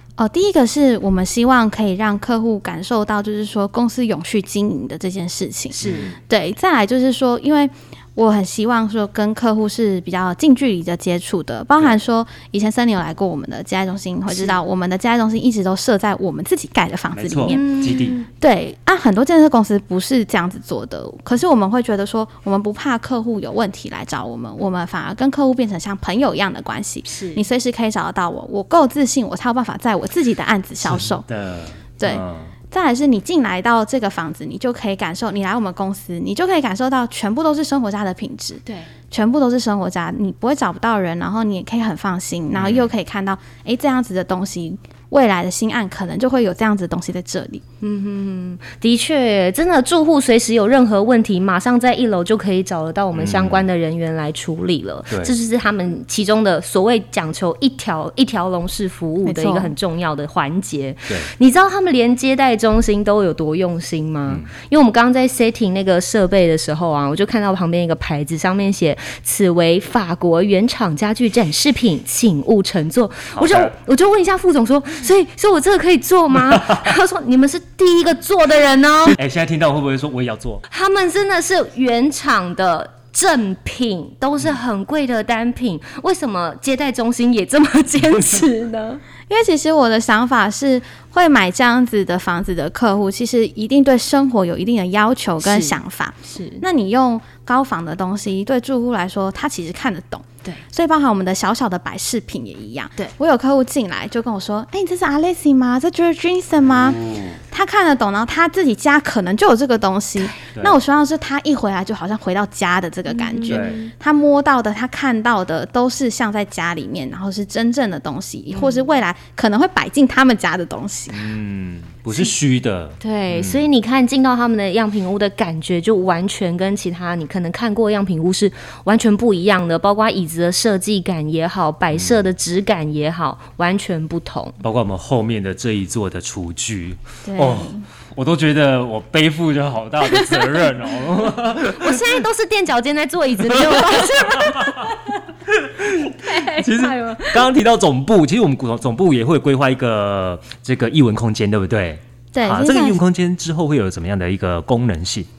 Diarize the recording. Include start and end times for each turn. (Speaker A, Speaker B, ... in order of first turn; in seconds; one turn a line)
Speaker A: 0.2-17.8
Speaker B: 5.8-6.2
Speaker C: 5.8-6.2
Speaker B: 14.3-14.6
Speaker C: 17.1-18.2
Speaker B: 17.5-18.3
Speaker A: 18.4-31.2
Speaker B: 27.1-27.4
Speaker C: 30.8-32.5
Speaker A: 32.0-47.6
Speaker C: 42.5-42.9
Speaker B: 47.8-79.2
Speaker C: 53.1-53.6
Speaker A: 59.2-59.7
Speaker C: 73.3-73.7
Speaker C: 76.5-76.8
Speaker C: 79.2-80.7
Speaker B: 80.7-89.0
Speaker A: 89.3-107.0
Speaker B: 95.4-95.8
Speaker B: 96.3-96.6
Speaker C: 106.6-107.4
Speaker A: 107.5-121.2
Speaker C: 110.5-110.8
Speaker B: 113.1-113.9
Speaker C: 113.5-113.8
Speaker B: 118.5-118.8
Speaker C: 121.1-123.7
Speaker B: 123.0-134.6
Speaker C: 131.9-132.3
Speaker C: 134.6-142.2
Speaker A: 137.3-137.8
Speaker B: 141.7-145.2
Speaker C: 143.5-144.9
Speaker C: 145.5-155.3
Speaker B: 146.1-147.4
Speaker A: 152.3-153.0